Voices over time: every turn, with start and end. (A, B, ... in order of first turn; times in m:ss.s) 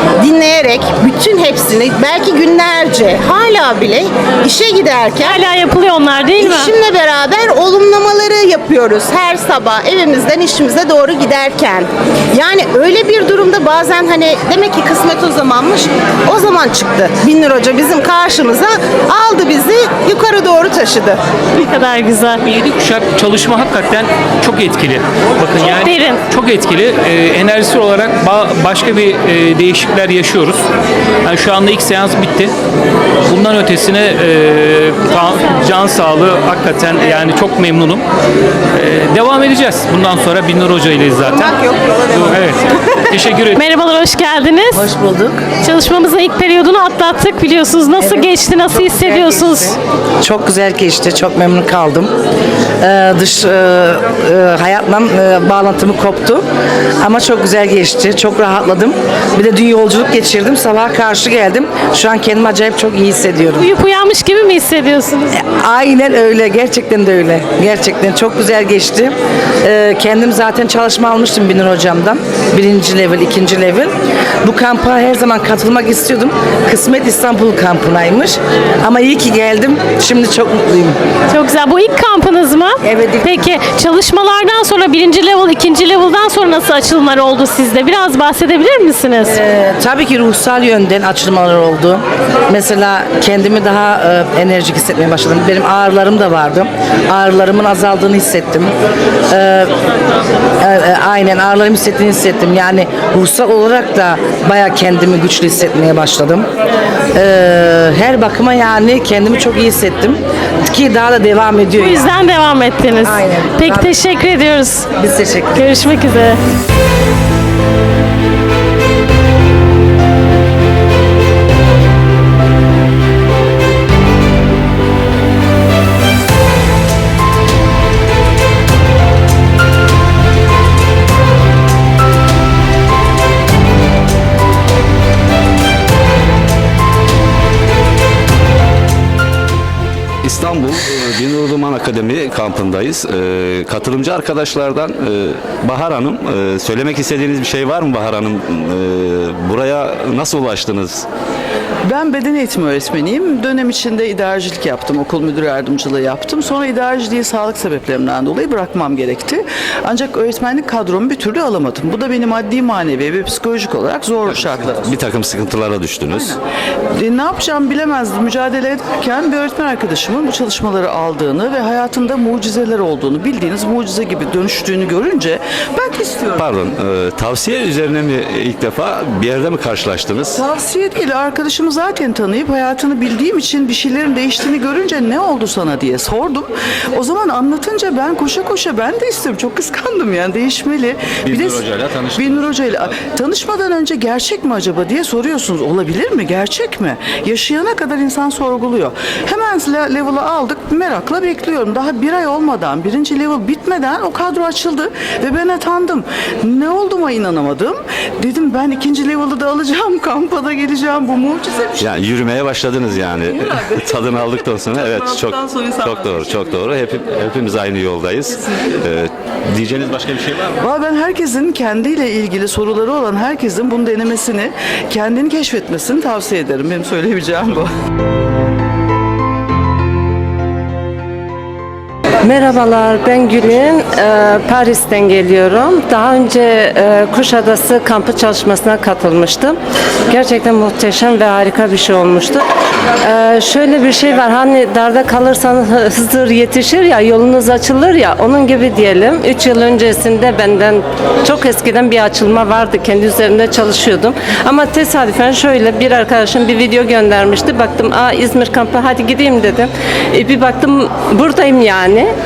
0:00.2-0:05.3 A
0:05.2-0:06.8 B
0:06.5-0:21.2 A
0:21.6-0:22.4 B
0:22.4-0:30.6 C
0:25.6-0:26.3 B
0:31.2-0:32.5 C
0:33.3-0:38.0 C
0:38.8-0:43.6 C
0:41.6-0:42.0 A
0:43.6-0:44.8 B
0:44.8-0:45.4 D
0:45.6-0:49.7 B
0:48.0-0:52.1 D
0:52.8-0:56.4 D
0:57.0-1:03.6 D
1:03.6-1:05.3 B
1:05.3-1:13.9 D
1:14.4-1:21.0 D
1:21.3-1:29.4 B
1:22.8-1:23.5 D
1:29.3-1:38.7 D
1:39.3-1:39.7 D
1:40.6-1:46.5 D
1:47.2-1:52.0 D
1:51.8-1:54.9 B
1:53.1-1:53.9 D
1:55.0-1:55.6 D
1:55.6-1:56.4 B
2:20.2-2:31.1 E
2:31.9-2:45.0 F
2:44.4-2:46.4 E
2:47.0-2:56.4 F
2:56.4-3:00.4 E
3:00.3-3:32.0 F
3:11.3-3:12.6 E
3:31.8-3:40.5 E
3:34.8-3:35.8 F
3:40.6-3:47.7 F
3:52.2-3:59.6 G
4:00.1-4:02.4 G
4:03.0-4:22.1 G